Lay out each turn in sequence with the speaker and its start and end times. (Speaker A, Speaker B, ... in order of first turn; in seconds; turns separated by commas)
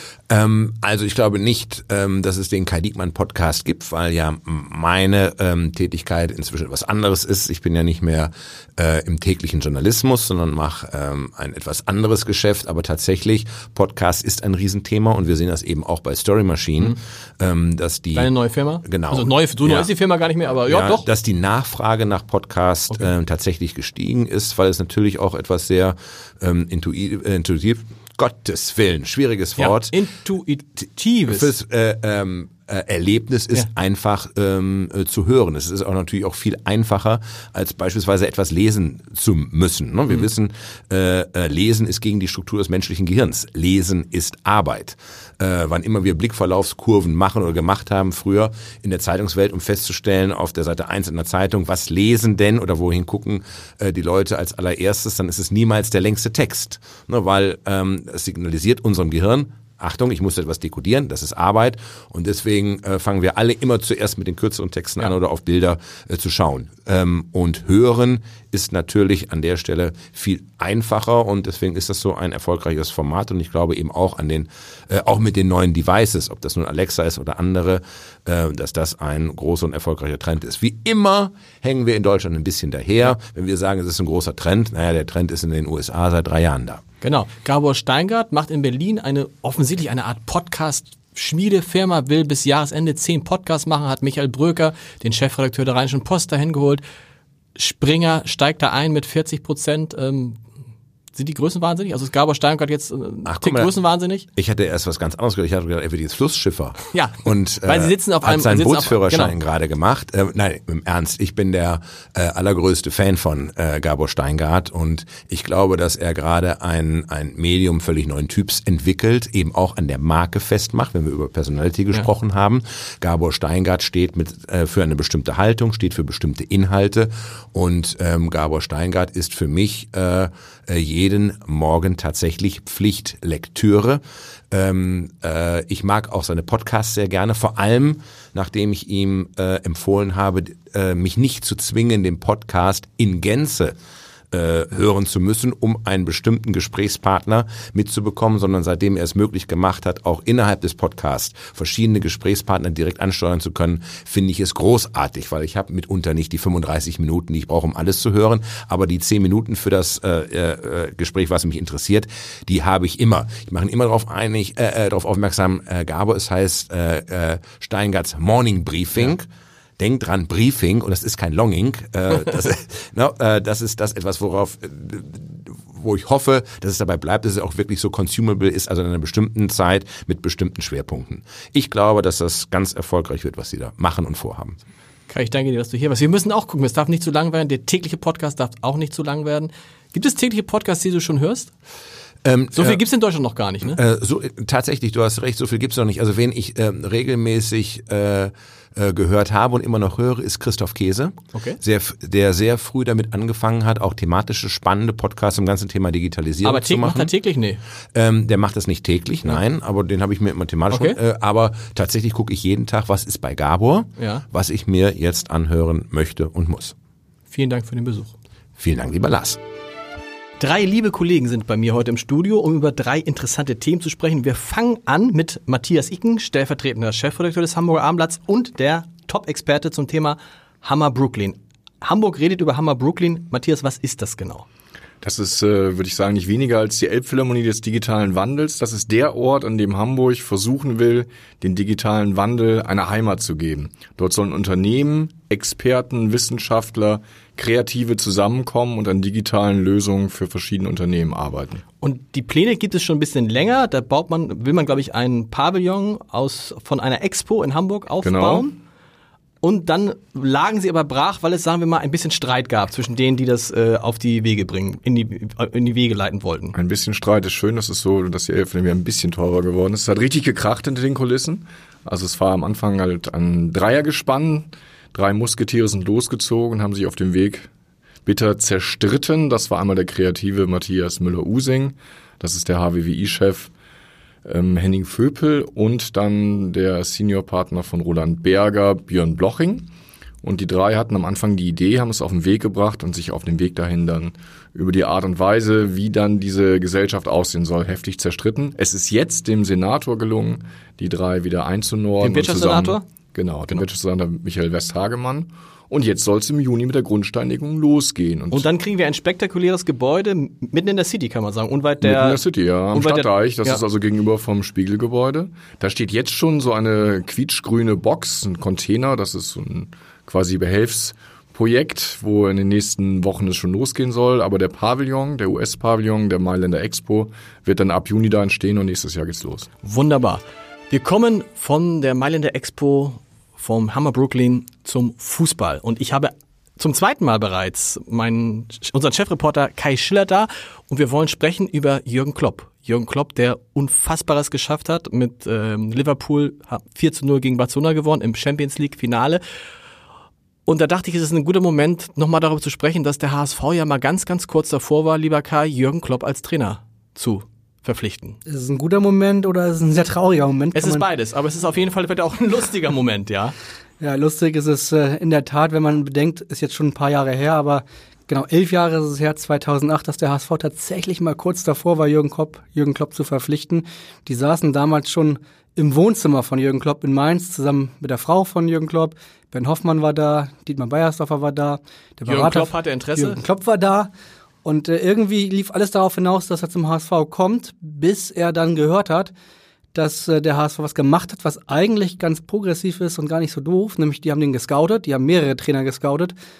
Speaker A: 0.3-19.9, Speaker B: 18.1-21.1, Speaker A: 20.6-29.9, Speaker B: 29.6-31.5, Speaker A: 31.3-86.8, Speaker B: 87.0-96.8, Speaker B: 97.5-100.4, Speaker B: 101.1-104.3, Speaker A: 103.2-103.7, Speaker A: 104.3-134.0, Speaker B: 106.9-109.3, Speaker A: 134.5-143.7, Speaker A: 144.3-169.3, Speaker A: 169.8-184.6, Speaker B: 185.1-191.5, Speaker A: 192.2-192.8, Speaker B: 192.5-193.8, Speaker A: 193.7-207.1, Speaker B: 201.3-201.6, Speaker B: 206.4-207.6, Speaker A: 207.9-216.7, Speaker B: 210.7-211.0, Speaker B: 214.0-214.2, Speaker B: 217.3-218.1, Speaker A: 218.6-219.4, Speaker B: 220.4-234.4, Speaker C: 235.0-251.6, Speaker B: 251.8-258.6, Speaker C: 258.0-258.5, Speaker B: 259.4-266.6, Speaker C: 266.5-277.5, Speaker C: 278.1-283.5, Speaker C: 284.2-289.7, Speaker C: 290.2-308.5, Speaker B: 302.0-302.8, Speaker B: 308.3-312.2, Speaker C: 311.8-329.5, Speaker B: 312.7-313.6, Speaker B: 329.6-349.2, Speaker B: 350.4-358.2, Speaker D: 358.3-360.8, Speaker B: 360.5-363.3, Speaker D: 363.8-383.9, Speaker B: 382.1-383.2, Speaker D: 384.4-389.1, Speaker D: 389.7-396.1